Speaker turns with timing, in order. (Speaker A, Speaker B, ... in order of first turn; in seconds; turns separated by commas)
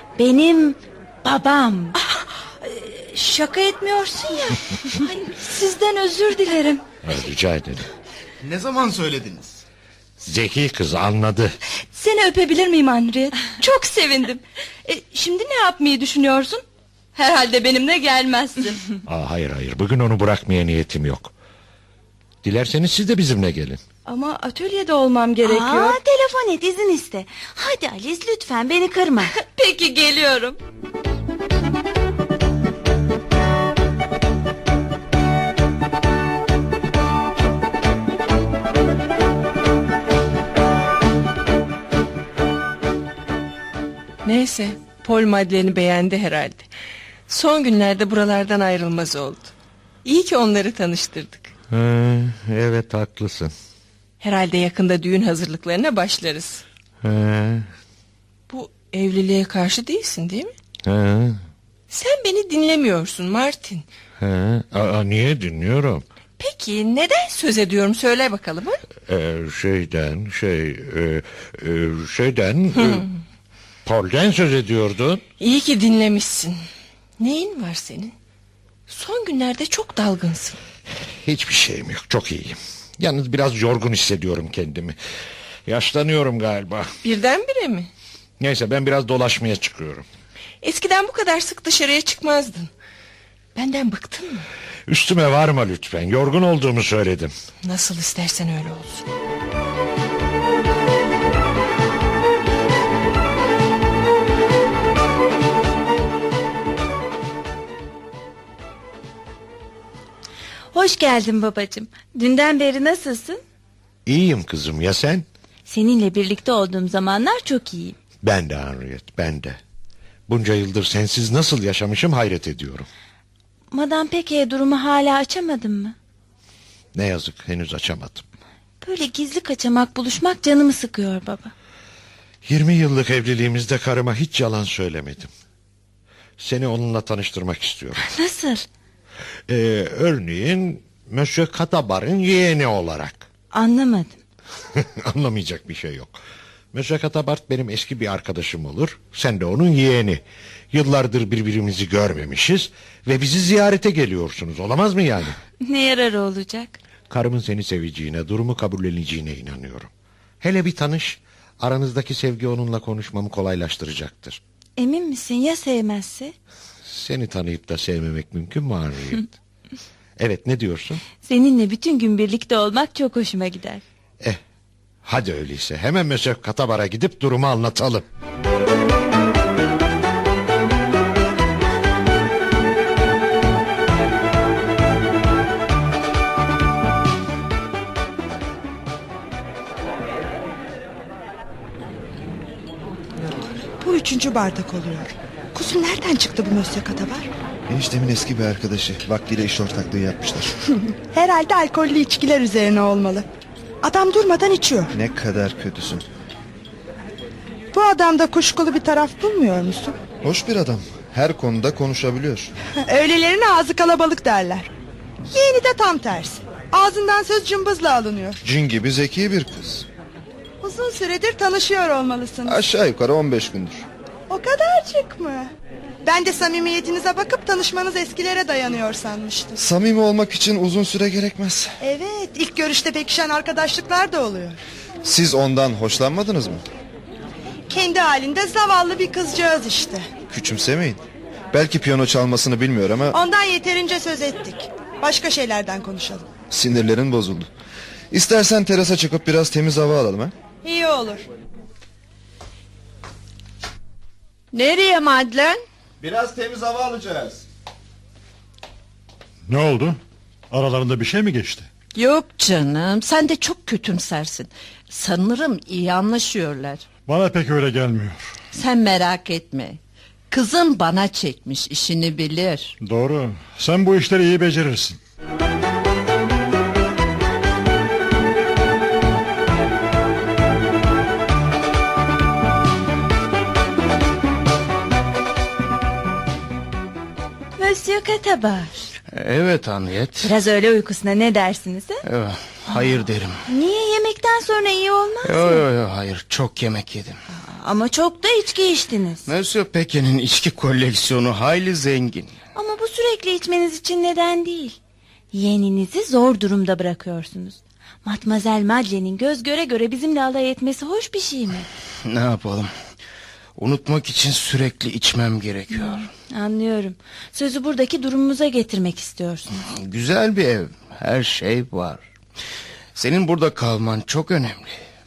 Speaker A: 0.2-2.0, Speaker B: 2.0-6.8, Speaker C: 7.0-7.9, Speaker D: 8.4-9.6, Speaker C: 10.2-11.6, Speaker B: 11.9-16.6, Speaker B: 17.1-18.8, Speaker C: 19.1-21.3, Speaker C: 22.4-23.8, Speaker B: 24.1-26.0, Speaker A: 25.4-29.3, Speaker B: 29.3-30.6, Speaker E: 44.2-46.7, Speaker E: 47.3-49.5, Speaker E: 50.0-51.5, Speaker C: 51.7-53.5, Speaker E: 54.2-56.6, Speaker C: 57.0-57.7, Speaker E: 58.5-60.5, Speaker C: 60.8-61.4, Speaker E: 61.9-63.9, Speaker C: 64.2-66.0, Speaker E: 66.4-68.8, Speaker C: 69.1-73.1, Speaker E: 72.8-73.1, Speaker C: 73.8-75.2, Speaker E: 75.4-76.6, Speaker E: 77.2-78.2, Speaker E: 78.9-80.6, Speaker C: 81.2-85.0, Speaker C: 85.7-86.9, Speaker E: 87.0-87.9, Speaker C: 88.4-90.1, Speaker E: 90.6-92.7, Speaker E: 93.5-94.5, Speaker C: 94.9-97.3, Speaker E: 97.7-99.1, Speaker A: 110.7-113.4, Speaker C: 114.1-115.2, Speaker A: 115.7-118.0, Speaker C: 118.2-119.6, Speaker C: 120.3-122.9, Speaker A: 123.7-126.0, Speaker C: 126.9-128.2, Speaker A: 128.8-131.5, Speaker C: 132.4-135.3, Speaker C: 136.4-138.0, Speaker A: 138.0-138.7, Speaker C: 139.5-143.2, Speaker A: 143.5-144.2, Speaker C: 144.8-146.2, Speaker C: 146.7-155.4, Speaker A: 155.6-156.8, Speaker C: 157.1-159.9, Speaker C: 160.4-164.4, Speaker A: 164.8-166.3, Speaker C: 166.9-169.3, Speaker C: 170.2-171.0, Speaker A: 171.2-173.8, Speaker C: 175.0-178.1, Speaker F: 193.8-197.3, Speaker G: 197.7-200.5, Speaker F: 201.1-203.3, Speaker F: 203.8-204.9, Speaker G: 204.9-206.0, Speaker F: 207.7-210.0, Speaker G: 210.2-212.5, Speaker F: 212.9-214.7, Speaker F: 215.3-218.4, Speaker G: 218.4-219.9, Speaker F: 220.6-222.6, Speaker G: 222.5-223.9, Speaker F: 224.3-225.5, Speaker F: 226.0-229.6, Speaker G: 229.6-231.8, Speaker F: 231.8-234.6, Speaker G: 235.0-236.6, Speaker F: 237.7-240.1, Speaker G: 240.3-243.2, Speaker F: 243.1-246.3, Speaker G: 246.5-247.5, Speaker G: 248.1-250.3, Speaker F: 250.6-251.2, Speaker H: 254.5-255.6, Speaker G: 256.0-257.4, Speaker I: 259.5-260.0, Speaker I: 260.5-261.7, Speaker H: 261.9-266.9, Speaker I: 267.1-268.2, Speaker H: 268.5-269.8, Speaker H: 270.3-272.7, Speaker I: 272.8-275.0, Speaker A: 287.6-288.9, Speaker D: 289.1-290.3, Speaker A: 290.2-292.0, Speaker D: 292.1-293.4, Speaker A: 293.5-295.6, Speaker D: 295.2-297.2, Speaker A: 297.3-299.3, Speaker D: 299.3-302.3, Speaker A: 302.6-304.8, Speaker A: 305.3-311.7, Speaker D: 312.1-312.7, Speaker D: 313.6-316.1, Speaker A: 315.7-319.6, Speaker D: 319.6-322.1, Speaker D: 322.9-324.8